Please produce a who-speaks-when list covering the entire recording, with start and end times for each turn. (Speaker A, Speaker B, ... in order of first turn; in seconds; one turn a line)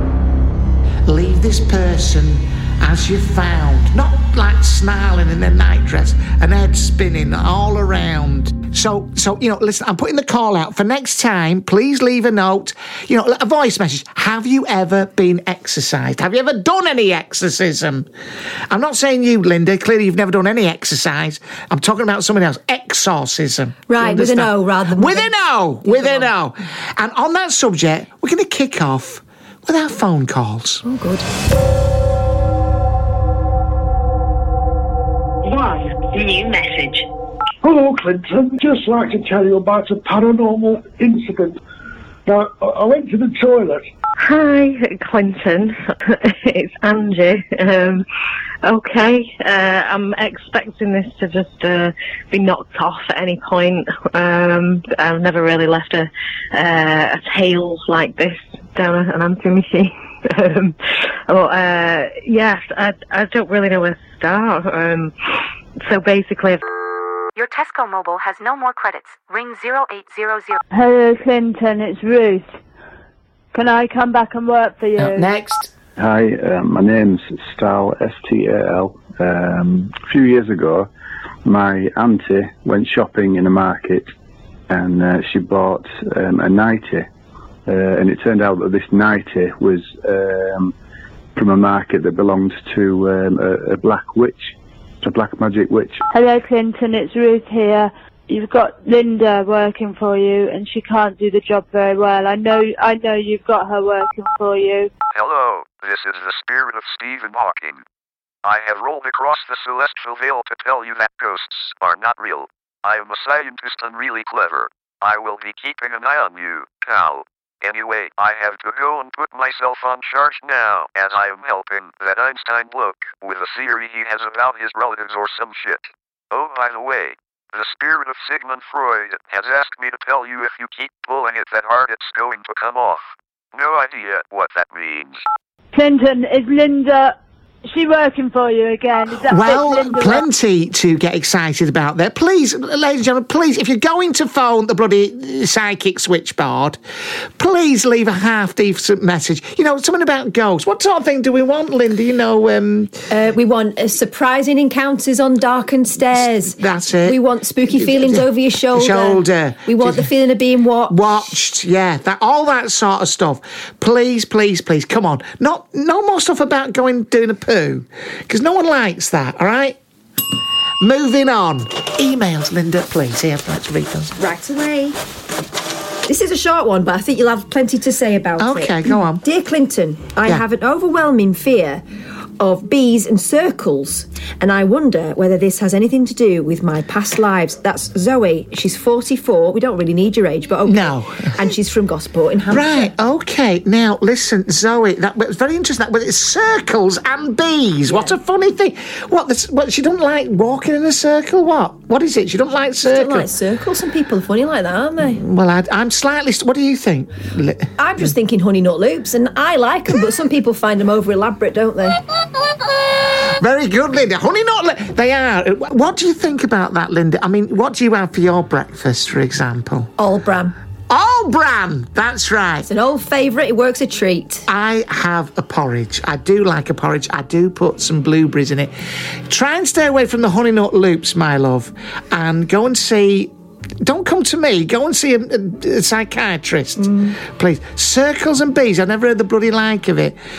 Speaker A: 1.1-18.1
Speaker A: 18.7-30.8
Speaker B: 23.9-25.3
Speaker B: 25.9-26.3
Speaker B: 30.9-31.3
Speaker C: 35.4-36.3
Speaker C: 37.6-41.6
Speaker C: 42.2-43.9
Speaker D: 44.2-48.0
Speaker D: 48.6-60.8
Speaker D: 61.3-65.1
Speaker D: 65.8-66.6
Speaker E: 67.4-70.6
Speaker F: 70.7-72.5
Speaker F: 73.5-75.3
Speaker A: 75.0-75.7
Speaker G: 76.0-80.9
Speaker G: 81.4-84.1
Speaker G: 84.7-87.1
Speaker G: 87.7-90.8
Speaker G: 91.3-96.0
Speaker F: 96.1-104.9
Speaker H: 105.1-107.8
Speaker H: 108.4-135.2
Speaker F: 135.7-140.3
Speaker A: 139.2-146.8
Speaker A: 147.4-152.9
Speaker B: 153.1-161.0
Speaker A: 156.1-160.1
Speaker A: 160.9-169.8
Speaker A: 170.8-174.2
Speaker B: 174.2-175.0
Speaker B: 176.1-181.8
Speaker A: 178.4-179.2
Speaker B: 182.4-192.9
Speaker A: 190.6-191.4
Speaker A: 192.5-203.3
Speaker B: 197.9-198.1
Speaker B: 202.8-205.2
Speaker A: 205.1-208.1
Speaker B: 207.8-212.0
Speaker A: 213.4-219.9
Speaker B: 220.0-220.6
Speaker A: 220.9-222.7
Speaker B: 222.7-224.4
Speaker A: 224.5-228.7
Speaker A: 229.3-240.2
Speaker B: 236.8-237.1